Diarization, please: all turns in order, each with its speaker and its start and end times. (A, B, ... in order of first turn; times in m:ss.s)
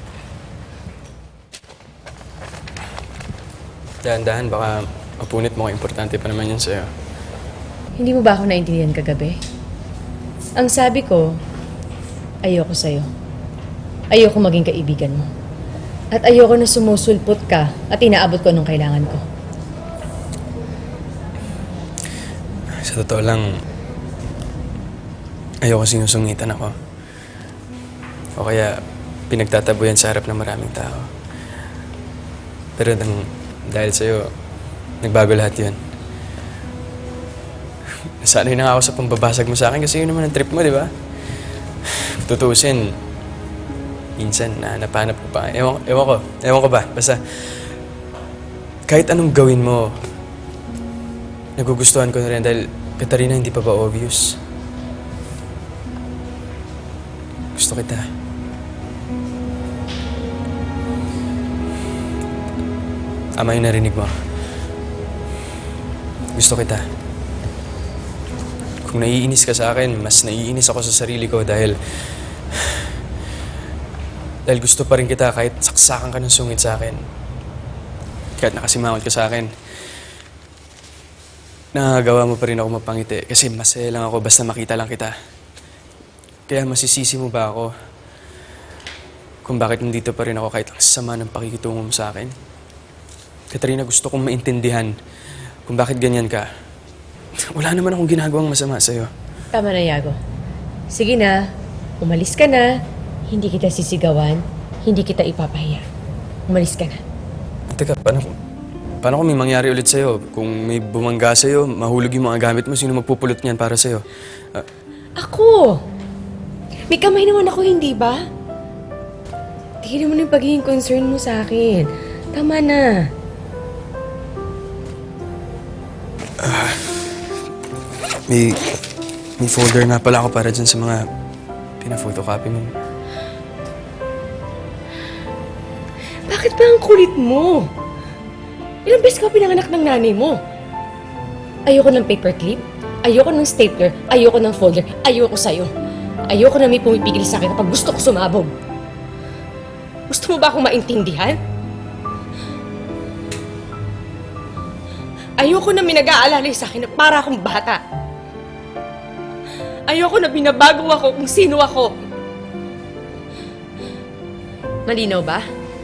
0:04.0-0:06.9 A
0:08.0-0:09.4 B
0:10.6-0:11.3 B
0:12.4-0:13.1 B
0:14.1-0:15.3 B
0:16.1-0:19.2 B
0:22.7-0:23.5 A
0:25.6-0:26.8 A
0:28.4-0:28.8 A
0:29.3-0:31.1 A
0:32.8-0:34.3 A
0:35.0-0:35.8 A
0:38.2-0:40.9 A
0:41.8-0:42.9 A
0:44.2-0:47.6 A
0:48.9-0:49.9 A
0:51.6-0:54.4 A
0:57.6-0:58.0 A
1:03.4-1:04.1 A
1:06.3-1:06.8 A
1:08.8-1:11.8 A
1:12.5-1:12.9 A
1:14.5-1:17.0 A
1:18.4-1:19.5 A
1:21.7-1:25.1 A
1:26.5-1:27.7 A
1:29.4-1:32.3 A
1:33.5-1:34.9 A
1:35.6-1:36.4 A
1:37.5-1:39.1 A
1:39.5-1:40.2 B
1:40.9-1:41.4 B
1:42.0-1:42.7 B
1:43.3-1:45.8 B
1:46.5-1:47.0 B
1:47.7-1:48.3 A
1:49.0-1:54.6 A
1:55.2-1:55.8 B
1:56.9-1:58.2 B
1:59.8-2:03.1 B
2:06.4-2:07.0 A
2:08.3-2:08.7 A
2:09.4-2:11.0 A
2:11.8-2:12.8 A
2:16.2-2:17.7 B
2:18.8-2:20.4 B
2:21.7-2:25.7 B
2:26.3-2:28.5 B
2:30.1-2:31.4 B
2:35.4-2:37.8 B
2:39.9-2:41.9 B
2:44.8-2:45.4 B